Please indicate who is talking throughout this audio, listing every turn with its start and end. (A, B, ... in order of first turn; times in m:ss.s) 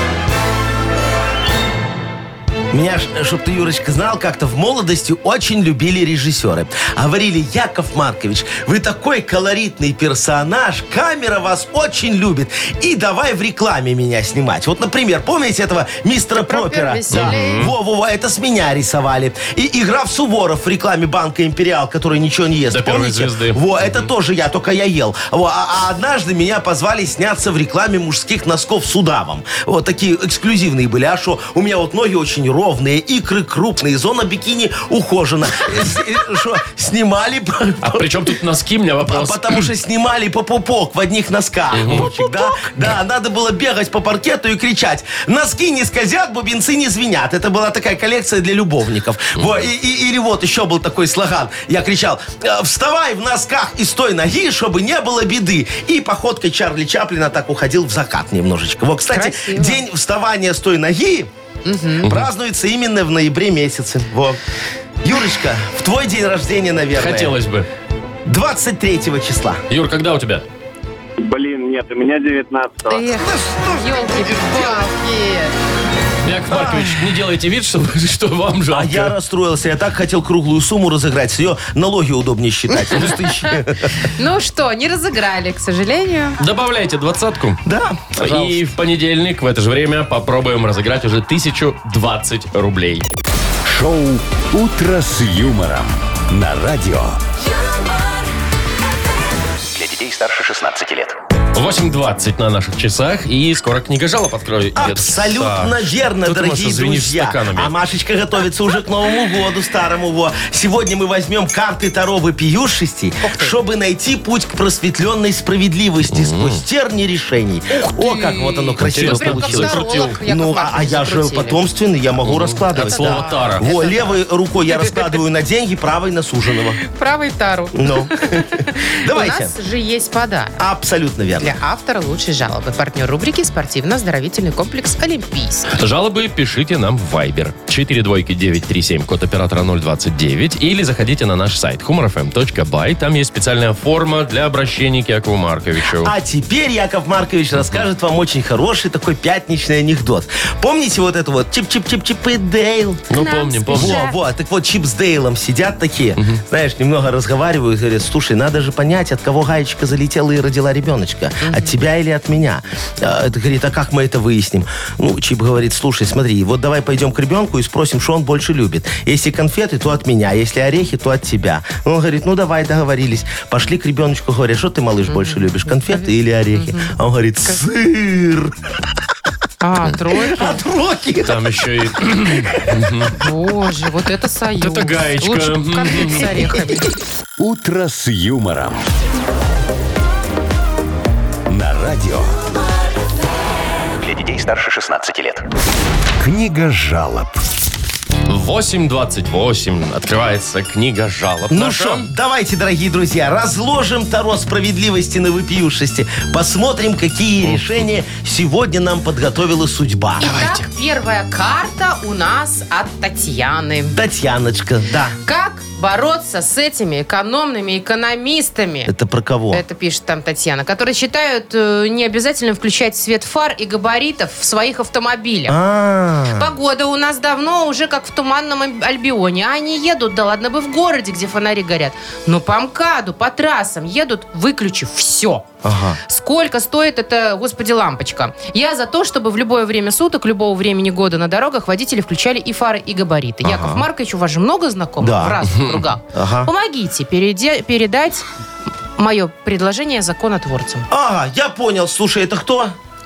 0:02.7-0:38.1 A
0:16.4-0:17.7 B
0:17.1-0:17.7 C
0:22.7-0:24.1 C
0:37.8-0:39.6 C
0:39.0-1:01.3 A
0:41.7-0:42.2 C
0:59.1-0:59.8 B
1:01.6-1:02.1 B
1:02.0-1:04.4 A
1:05.0-1:07.4 A
1:06.9-1:07.7 C
1:08.2-1:09.6 A
1:09.7-1:10.4 C
1:11.2-1:13.1 D
1:12.9-1:15.5 B
1:13.2-1:14.9 A
1:16.2-1:19.1 C
1:16.5-1:17.1 A
1:18.7-1:24.0 A
1:23.0-1:26.4 B
1:26.4-1:27.6 C
1:27.6-1:28.6 A
1:28.2-1:33.0 C
1:33.6-1:37.2 E
1:39.7-1:41.2 F
1:41.5-1:47.7 C
1:44.7-2:06.8 A
1:53.2-1:53.6 B
1:56.1-1:56.6 C
1:57.7-2:01.6 B
1:58.8-2:00.2 C
2:02.2-2:03.7 C
2:02.8-2:05.1 B
2:06.8-2:10.6 B
2:07.7-2:09.5 A
2:10.6-2:11.6 A
2:11.4-2:15.7 B
2:15.7-2:26.1 C
2:25.8-2:33.0 A
2:27.6-2:27.8 C
2:33.1-2:34.0 C
2:33.1-2:34.2 B
2:33.7-2:58.5 A
2:41.4-2:41.8 B
2:55.1-2:56.9 B
2:59.6-3:00.6 B
2:59.9-3:01.6 A
3:01.2-3:03.1 C
3:02.2-3:02.9 A
3:03.1-3:06.9 B
3:04.6-3:06.4 C
3:07.4-3:08.8 E
3:11.5-3:12.3 E
3:14.0-3:15.4 F
3:16.2-3:17.4 E
3:18.3-3:22.1 C
3:21.5-3:30.3 A
3:30.2-3:34.0 B
3:30.2-3:30.6 C
3:33.9-3:35.2 A
3:35.2-3:38.9 B
3:38.8-3:39.6 A
3:39.5-3:45.6 B
3:45.5-3:46.5 A
3:46.3-3:55.4 B
3:55.6-3:56.0 A
3:56.0-4:08.2 B
4:03.4-4:03.8 A
4:05.0-4:05.4 A
4:06.1-4:06.5 A
4:09.0-4:10.9 B
4:10.9-4:12.8 A